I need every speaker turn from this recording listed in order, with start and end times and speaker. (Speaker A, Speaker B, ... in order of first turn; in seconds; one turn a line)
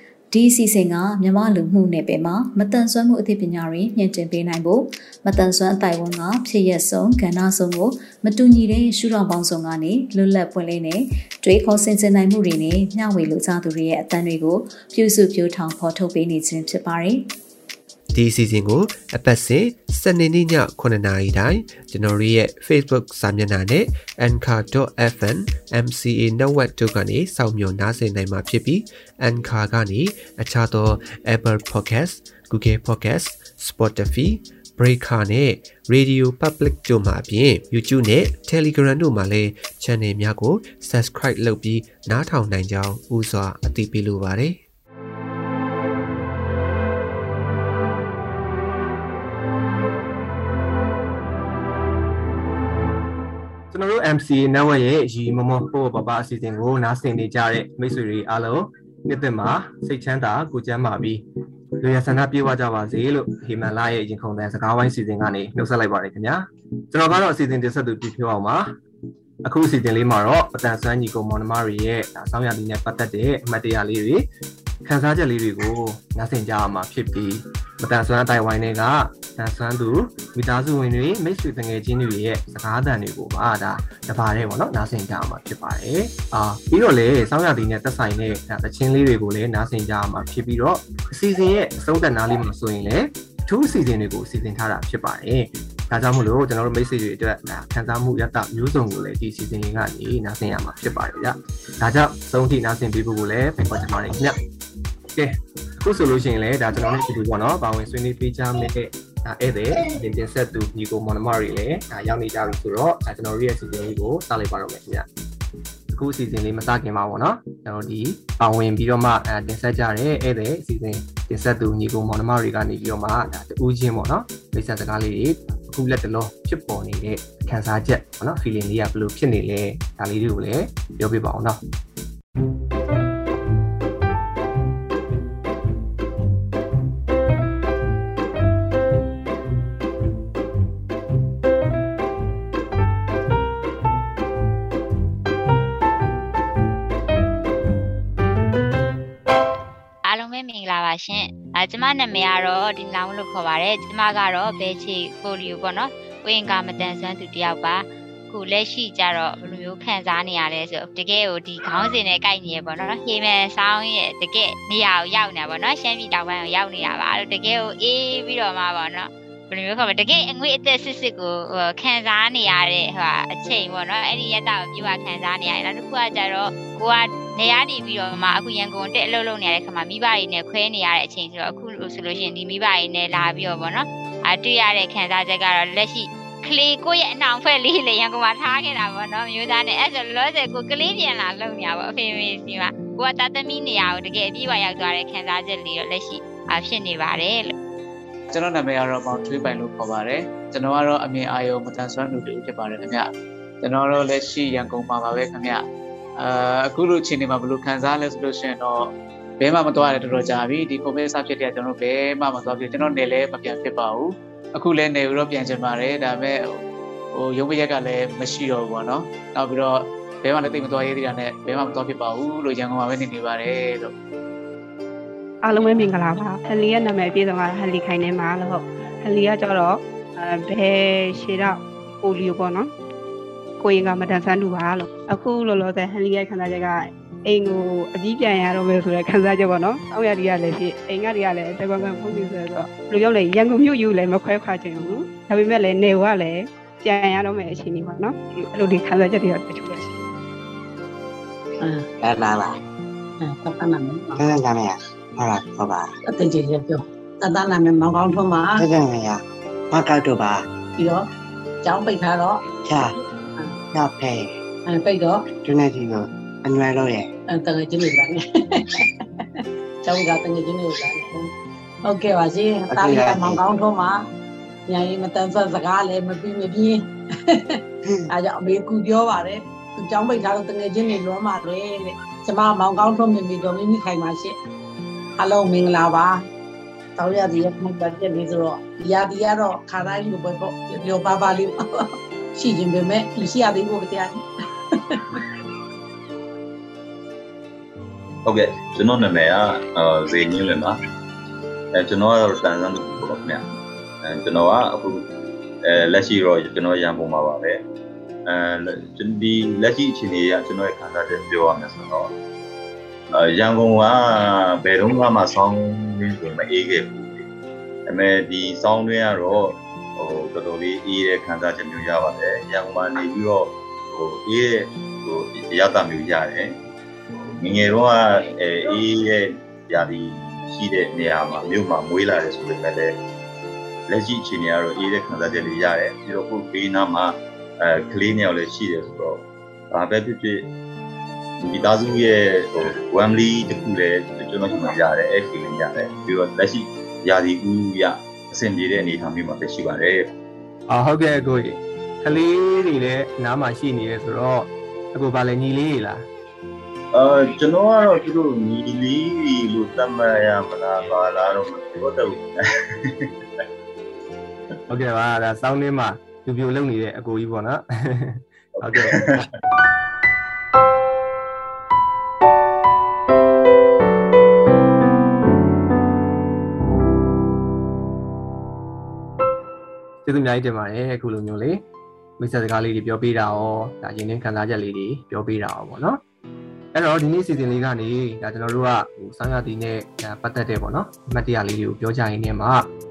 Speaker A: 0.3-17.3
Speaker B: 18.1-44.6
Speaker C: 53.7-61.2
Speaker C: 61.8-68.7
Speaker C: 69.4-74.3
Speaker C: 74.8-104.4
Speaker C: 105.1-115.1
Speaker C: 115.9-131.6
Speaker D: 150.0-197.5
Speaker E: 198.3-203.1
Speaker E: 203.6-205.6
Speaker E: 206.2-216.6
Speaker E: 217.1-223.9
Speaker F: 225.4-232.7
Speaker F: 233.6-249.9
Speaker G: 251.6-251.9
Speaker H: 252.0-252.6
Speaker G: 253.2-254.3
Speaker H: 254.2-255.9
Speaker G: 256.1-258.7
Speaker H: 258.6-260.4
Speaker G: 260.8-261.1
Speaker G: 261.6-262.4
Speaker H: 263.7-264.3
Speaker G: 264.7-265.3
Speaker H: 265.4-267.1
Speaker G: 267.3-268.6
Speaker G: 269.8-271.3
Speaker G: 271.9-274.0
Speaker H: 272.7-273.2
Speaker G: 274.7-277.6
Speaker G: 278.1-284.3
Speaker G: 285.2-286.2
Speaker G: 287.0-294.2
Speaker G: 294.8-295.2
Speaker I: 298.3-300.8
Speaker I: 301.7-303.4
Speaker I: 304.0-305.1
Speaker I: 305.6-307.6
Speaker I: 308.3-312.1
Speaker I: 313.1-317.3
Speaker I: 317.9-326.6
Speaker I: 327.2-333.0
Speaker I: 333.9-340.5
Speaker I: 341.4-350.1
Speaker C: 350.7-356.1
Speaker I: 356.9-363.1
Speaker C: 364.7-369.2
Speaker I: 368.6-369.3
Speaker C: 380.0-381.6
Speaker C: 382.2-386.0
Speaker C: 386.7-392.7